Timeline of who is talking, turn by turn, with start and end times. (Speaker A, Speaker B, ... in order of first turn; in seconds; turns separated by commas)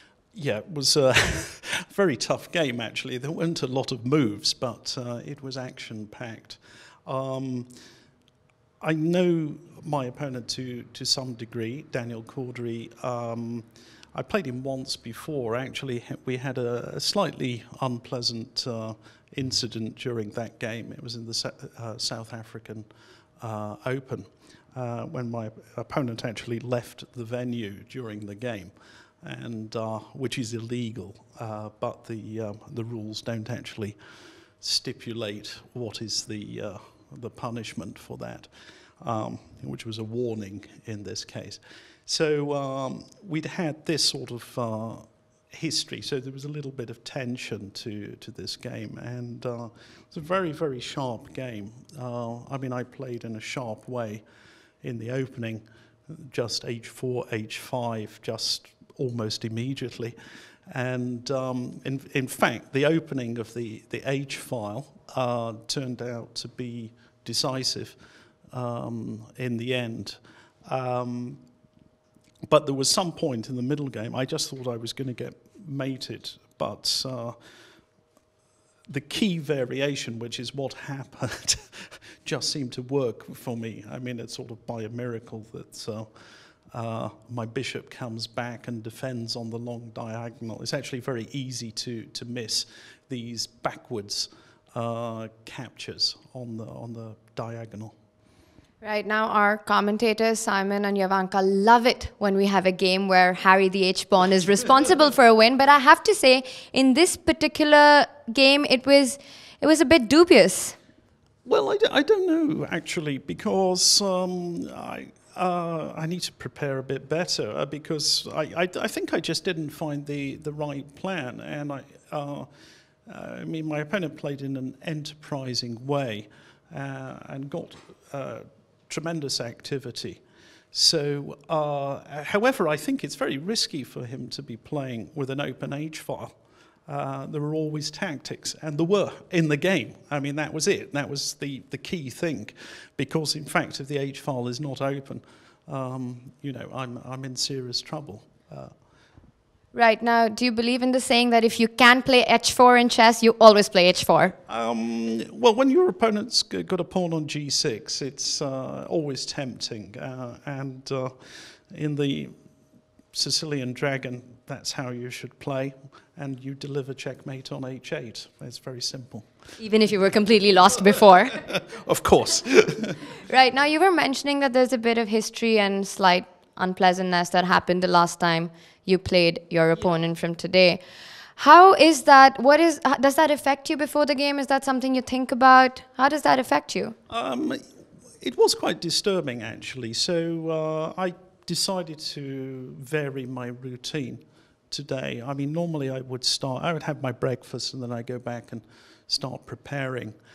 Speaker A: 0.3-7.7, Speaker A: 8.8-22.9, Speaker A: 23.4-34.0, Speaker A: 34.6-38.5, Speaker A: 39.0-54.2, Speaker A: 54.8-60.1, Speaker A: 60.7-68.0, Speaker A: 68.5-71.4, Speaker A: 72.5-77.4, Speaker A: 78.9-86.1, Speaker A: 86.7-97.9, Speaker B: 98.8-110.8, Speaker A: 111.5-122.5, Speaker A: 123.1-136.3, Speaker A: 136.9-148.7, Speaker B: 149.7-154.4, Speaker A: 154.5-161.2, Speaker A: 161.7-162.3, Speaker A: 163.1-169.3, Speaker B: 169.6-171.5, Speaker A: 171.3-173.0, Speaker B: 173.2-180.8, Speaker B: 181.4-186.9, Speaker A: 187.1-187.6, Speaker A: 188.2-200.2